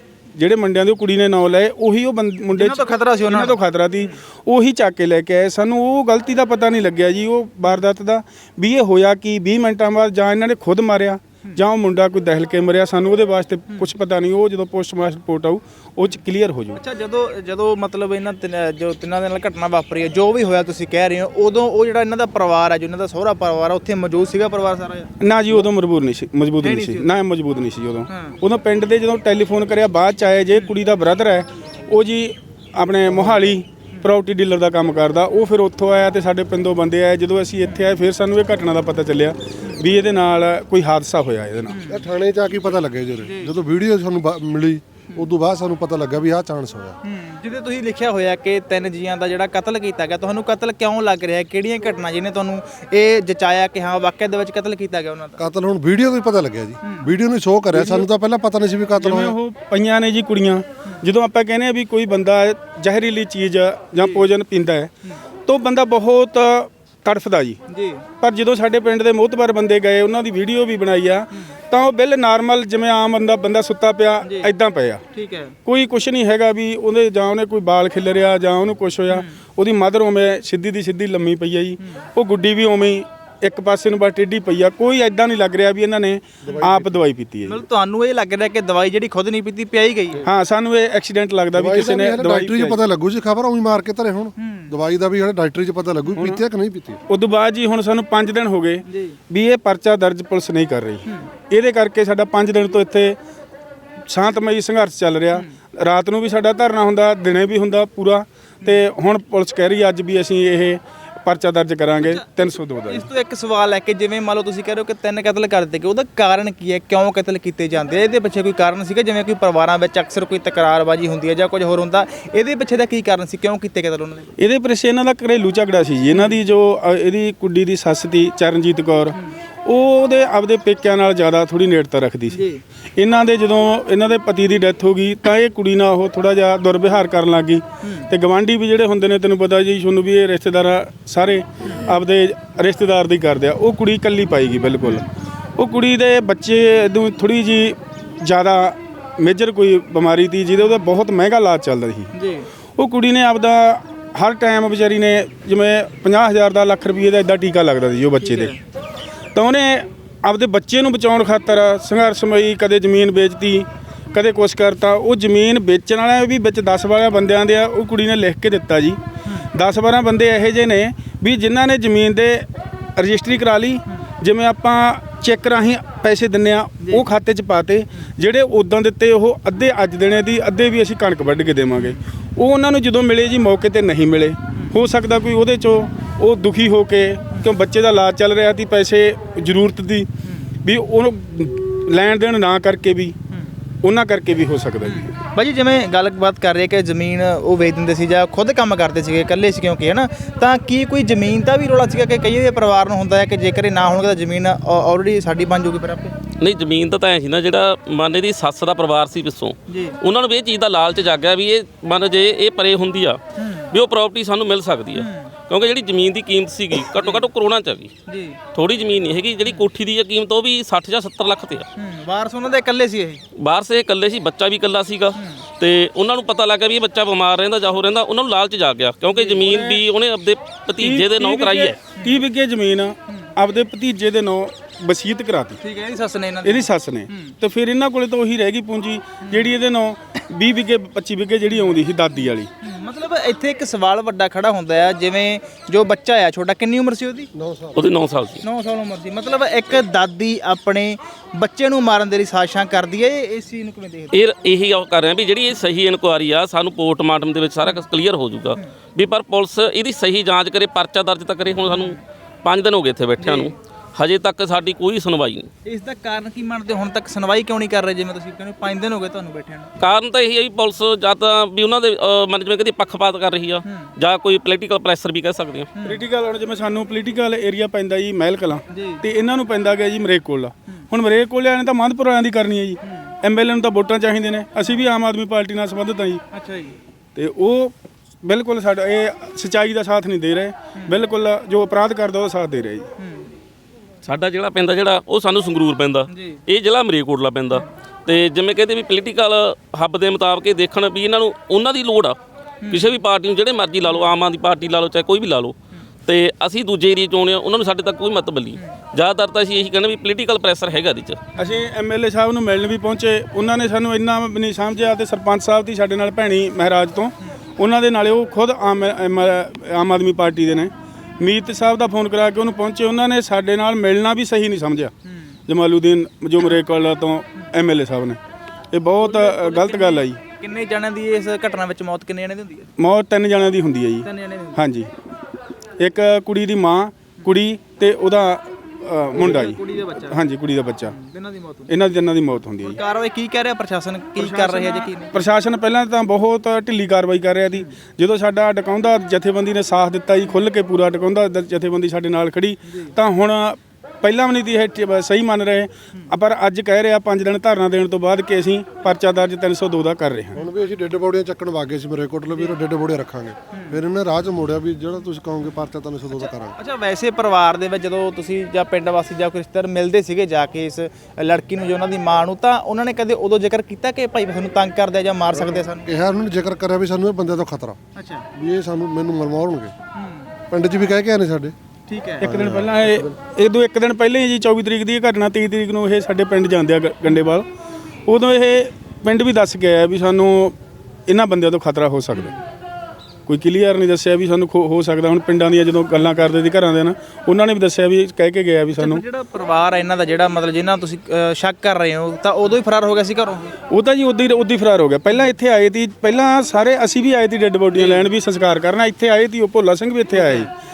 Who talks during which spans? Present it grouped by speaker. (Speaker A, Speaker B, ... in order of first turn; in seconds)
Speaker A: 0.4-16.8, 25.2-41.8, 57.8-58.1, 59.0-67.6, 68.2-75.0, 75.7-87.6, 90.2-92.8, 96.2-96.4, 97.1-103.2, 104.1-113.1, 124.4-132.4, 133.0-152.1, 152.8-158.6, 159.3-169.0, 169.5-190.1, 190.6-193.2, 193.8-195.2, 229.4-229.8, 230.8-235.6, 236.4-242.5, 275.8-286.2, 287.1-292.9, 311.4-324.9, 325.5-328.2, 328.7-330.2, 332.8-334.9, 335.8-340.9, 341.7-342.8, 344.2-360.4, 382.2-387.5, 388.1-392.4, 393.3-399.0, 403.7-410.5
Speaker B: 2.5-4.1, 16.8-25.1, 26.6-27.1, 28.1-28.4, 41.7-42.1, 43.2-43.5, 47.0-55.4, 56.8-57.1, 64.0-64.2, 67.7-68.0, 74.2-74.5, 75.1-75.5, 87.4-90.2, 94.4-94.7, 98.9-99.2, 112.0-124.3, 126.1-126.4, 132.3-132.6, 137.8-138.1, 152.2-152.5, 158.2-158.6, 190.2-190.5, 193.3-193.6, 194.8-206.2, 209.7-210.0, 213.4-213.7, 214.9-215.3, 217.0-217.3, 218.1-218.4, 221.8-223.2, 225.2-225.4, 229.1-229.4, 232.0-232.2, 235.6-237.3, 239.2-239.5, 241.5-247.3, 248.4-254.2, 261.7-262.0, 263.2-263.5, 265.6-269.7, 273.7-273.9, 275.8-276.0, 278.7-279.0, 282.8-283.1, 286.3-286.8, 293.0-293.3, 296.1-296.4, 302.6-303.0, 303.8-304.1, 311.4-311.6, 325.1-325.4, 329.0-332.7, 334.0-334.6, 339.1-340.2, 340.8-341.7, 342.6-345.3, 363.5-363.8, 366.2-375.9, 378.0-378.3, 380.0-380.4, 381.9-382.2, 398.8-403.6, 407.7-408.1, 410.1-410.5
Speaker C: 41.9-47.0, 55.4-59.4, 86.4-87.0, 91.5-97.0, 247.3-247.8, 360.4-366.6, 375.3-377.8, 378.3-379.7, 380.5-381.5, 382.2-383.1
Speaker D: 206.4-217.9, 218.5-221.7, 223.4-231.8, 247.8-248.4, 254.1-265.5, 269.8-275.7, 294.0-302.2, 302.7-311.2